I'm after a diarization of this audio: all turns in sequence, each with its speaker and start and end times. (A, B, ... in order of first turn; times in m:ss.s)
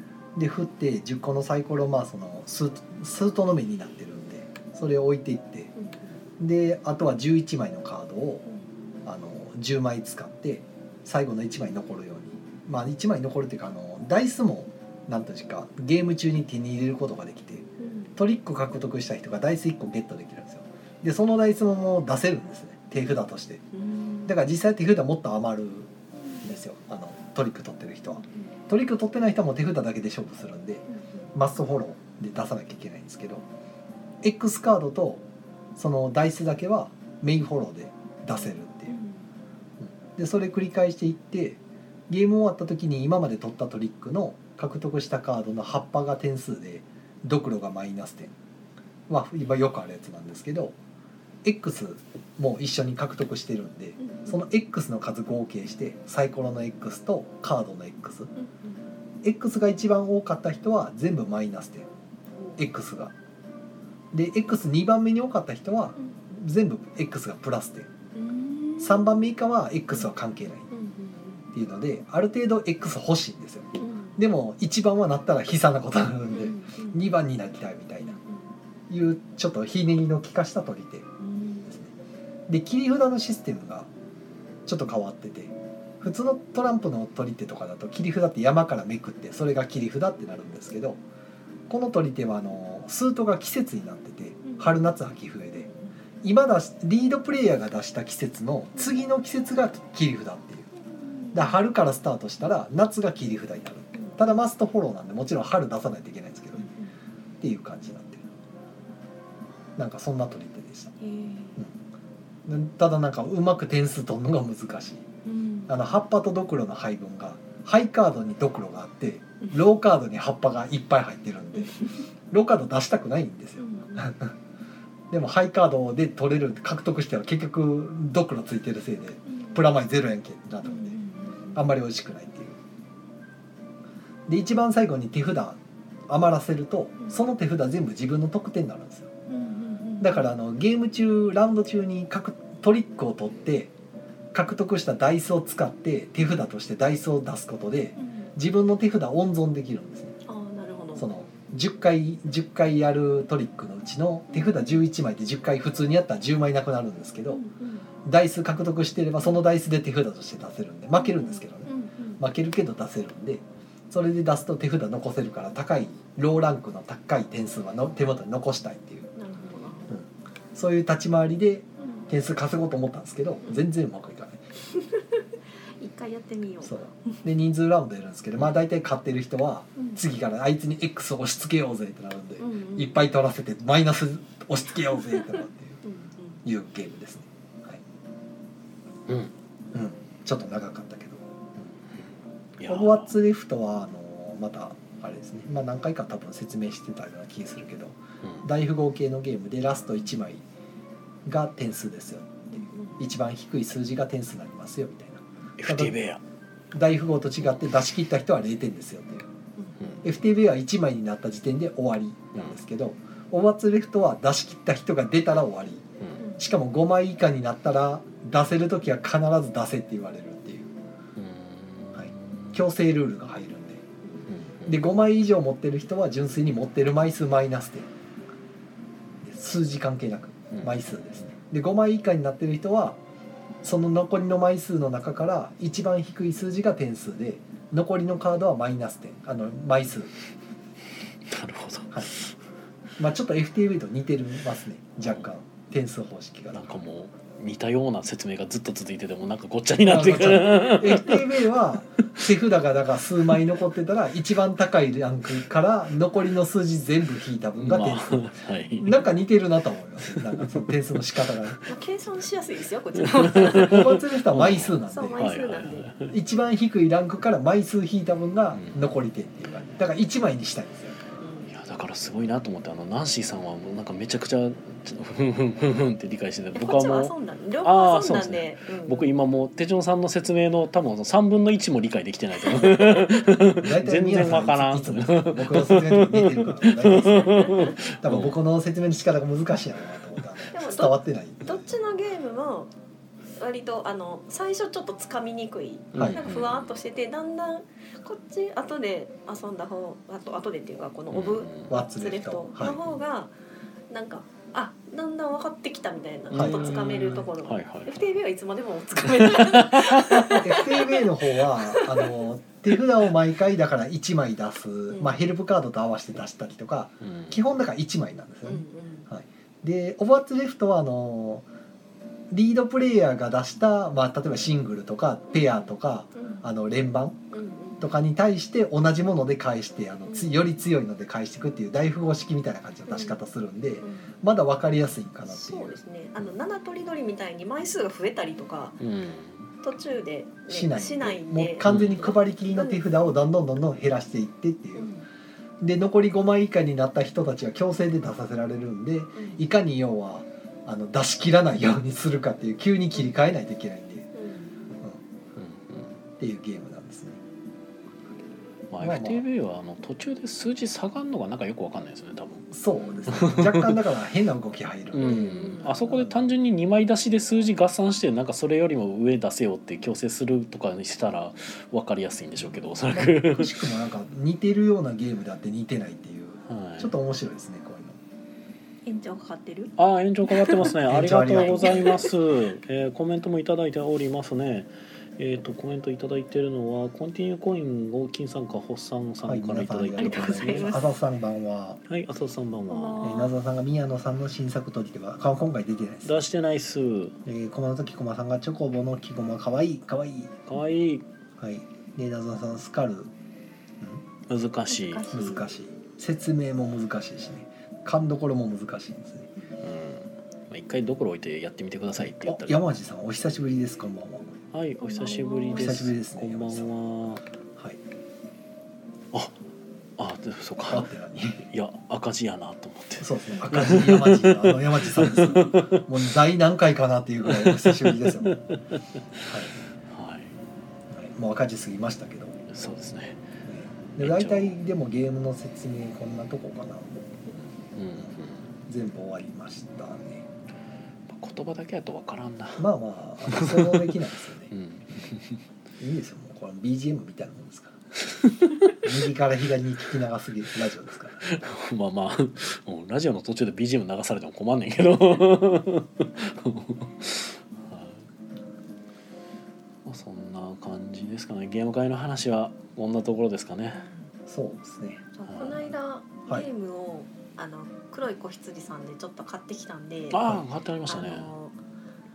0:00.4-0:05.7 A
0:05.8-0:06.2 B
0:06.4-0:08.4 A
0:09.0-0:23.6 A
0:17.8-0:18.1 B
0:23.7-0:24.3 B
0:24.2-0:33.4 A
0:28.2-0:28.5 B
0:30.9-0:31.3 B
0:34.2-0:35.2 A
0:35.8-0:39.0 A
0:38.9-0:39.2 B
0:39.8-0:48.4 A
0:49.1-0:50.8 A
0:51.4-0:58.3 A
0:54.0-0:54.4 B
0:58.4-0:58.8 B
0:59.2-1:01.9 A
1:02.6-1:03.1 A
1:04.1-1:07.9 A
1:08.1-1:09.2 B
1:08.8-1:10.7 A
1:10.7-1:11.5 B
1:11.5-1:18.2 A
1:13.8-1:14.2 B
1:16.3-1:17.0 B
1:18.0-1:18.4 B
1:18.9-1:21.1 A
1:21.2-1:21.7 B
1:21.7-1:21.9 A
1:22.5-1:23.9 A
1:24.6-1:31.0 A
1:31.7-1:35.7 A
1:34.4-1:34.7 B
1:35.6-1:35.9 B
1:36.2-1:40.7 A
1:40.9-1:41.6 B
1:41.3-1:46.7 A
1:43.9-1:44.2 B
1:46.6-1:46.9 B
1:47.4-1:48.3 A
1:49.8-1:50.9 A
1:51.0-1:51.6 B
1:52.4-1:55.1 A
1:55.2-1:55.8 B
1:55.7-2:04.3 A
2:01.6-2:02.0 B
2:03.6-2:04.1 B
2:05.1-2:11.0 A
2:09.3-2:09.6 B
2:10.6-2:11.6 B
2:11.6-2:12.6 A
2:14.3-2:19.1 A
2:19.3-2:20.3 B
2:20.0-2:23.7 A
2:24.3-2:30.2 A
2:28.0-2:28.3 B
2:30.3-2:31.1 B
2:31.0-2:37.4 A
2:34.3-2:34.8 B
2:37.3-2:37.9 B
2:38.0-2:49.1 A
2:41.0-2:42.2 B
2:49.2-2:50.0 B
2:49.9-2:54.4 A
2:51.8-2:52.1 B
2:54.8-2:55.2 B
2:55.8-2:57.2 B
2:56.6-3:05.8 A
2:59.8-3:00.0 B
3:02.4-3:03.0 B
3:05.8-3:06.4 B
3:06.4-3:07.8 A
3:09.1-3:09.3 C
3:09.7-3:11.4 A
3:12.6-3:13.1 C
3:12.6-3:20.4 A
3:21.2-3:26.0 A
3:22.6-3:23.0 B
3:25.6-3:26.2 C
3:26.7-3:29.3 A
3:29.8-3:30.0 C
3:30.0-3:35.9 A
3:36.2-3:36.4 B
3:36.4-3:40.7 A
3:41.2-3:42.6 C
3:41.9-3:43.8 A
3:44.3-3:44.8 C
3:44.6-3:47.9 A
3:49.2-3:53.0 A
3:53.6-4:00.1 A
4:01.3-4:02.3 C
4:03.0-4:06.7 A
4:06.5-4:11.5 C
4:09.8-4:21.6 A
4:17.6-4:19.1 C
4:20.0-4:20.7 C
4:21.2-4:21.6 C
4:21.7-4:24.0 B
4:23.0-4:26.1 C
4:23.4-4:25.2 A
4:24.9-4:25.9 B
4:26.1-4:31.1 A
4:28.5-4:28.9 C
4:31.2-4:31.5 B
4:31.4-4:48.4 C
4:36.6-4:39.1 B
4:42.4-4:43.1 B
4:43.6-4:51.7 A
4:47.0-4:47.8 B
4:50.5-4:52.7 B
4:53.4-5:03.3 B
4:55.9-4:56.8 C
5:01.1-5:01.7 C
5:01.7-5:02.8 A
5:03.9-5:12.2 B
5:06.3-5:08.1 C
5:06.3-5:06.9 A
5:09.1-5:10.4 C
5:10.4-5:21.4 A
5:14.9-5:15.2 B
5:17.0-5:17.4 C
5:18.4-5:19.1 B
5:22.3-5:27.2 A
5:25.3-5:26.5 B
5:27.3-5:27.9 B
5:27.8-5:35.8 A
5:30.1-5:30.3 B
5:32.9-5:33.2 B
5:33.8-5:34.1 B
5:35.3-5:38.8 B
5:38.8-5:39.5 C
5:39.6-5:42.8 B
5:40.5-5:44.9 A
5:41.6-5:42.2 C
5:44.8-5:45.1 B
5:45.6-5:54.1 A
5:49.2-5:49.4 B
5:54.1-5:54.6 B
5:55.4-5:56.0 C
5:56.2-5:57.2 A
5:58.7-6:02.5 C
5:58.8-5:59.2 A
6:02.5-6:06.2 A
6:03.1-6:03.8 C
6:04.9-6:13.7 C
6:05.0-6:05.7 B
6:12.9-6:18.0 A
6:16.4-6:16.9 C
6:18.8-6:19.7 B
6:19.8-6:30.8 C
6:20.2-6:20.7 B
6:20.8-6:22.1 A
6:21.4-6:22.1 B
6:29.2-6:31.8 A
6:29.9-6:30.8 B
6:31.9-6:33.1 C
6:32.7-6:33.4 B
6:33.0-6:36.2 A
6:36.0-6:37.2 C
6:37.2-6:40.4 A
6:40.5-6:41.1 C
6:41.4-6:43.1 A
6:44.3-6:45.1 C
6:44.7-6:45.5 B
6:45.1-6:49.3 A
6:49.6-6:52.6 C
6:52.2-6:54.3 A
6:54.5-6:57.2 C
6:54.8-6:55.8 B
6:55.5-6:56.7 A
7:00.0-7:00.9 C
7:00.7-7:01.4 A
7:01.4-7:05.9 C
7:03.0-7:08.4 A
7:07.3-7:09.3 C
7:09.3-7:09.6 A
7:09.9-7:10.4 C
7:10.9-7:12.4 A
7:12.5-7:13.3 C
7:13.4-7:17.2 A
7:14.0-7:14.6 C
7:17.7-7:18.6 C
7:18.7-7:20.3 A
7:21.1-7:22.7 C
7:22.6-7:24.5 A
7:23.2-7:25.4 C
7:25.8-7:27.8 A
7:28.0-7:28.8 C
7:28.8-7:31.3 A
7:31.2-7:38.0 C
7:39.8-7:43.9 C
7:43.7-7:44.1 B
7:44.3-7:45.1 A
7:45.2-7:50.3 B
7:45.2-7:45.6 C
7:50.1-7:51.3 C
7:50.9-7:51.6 B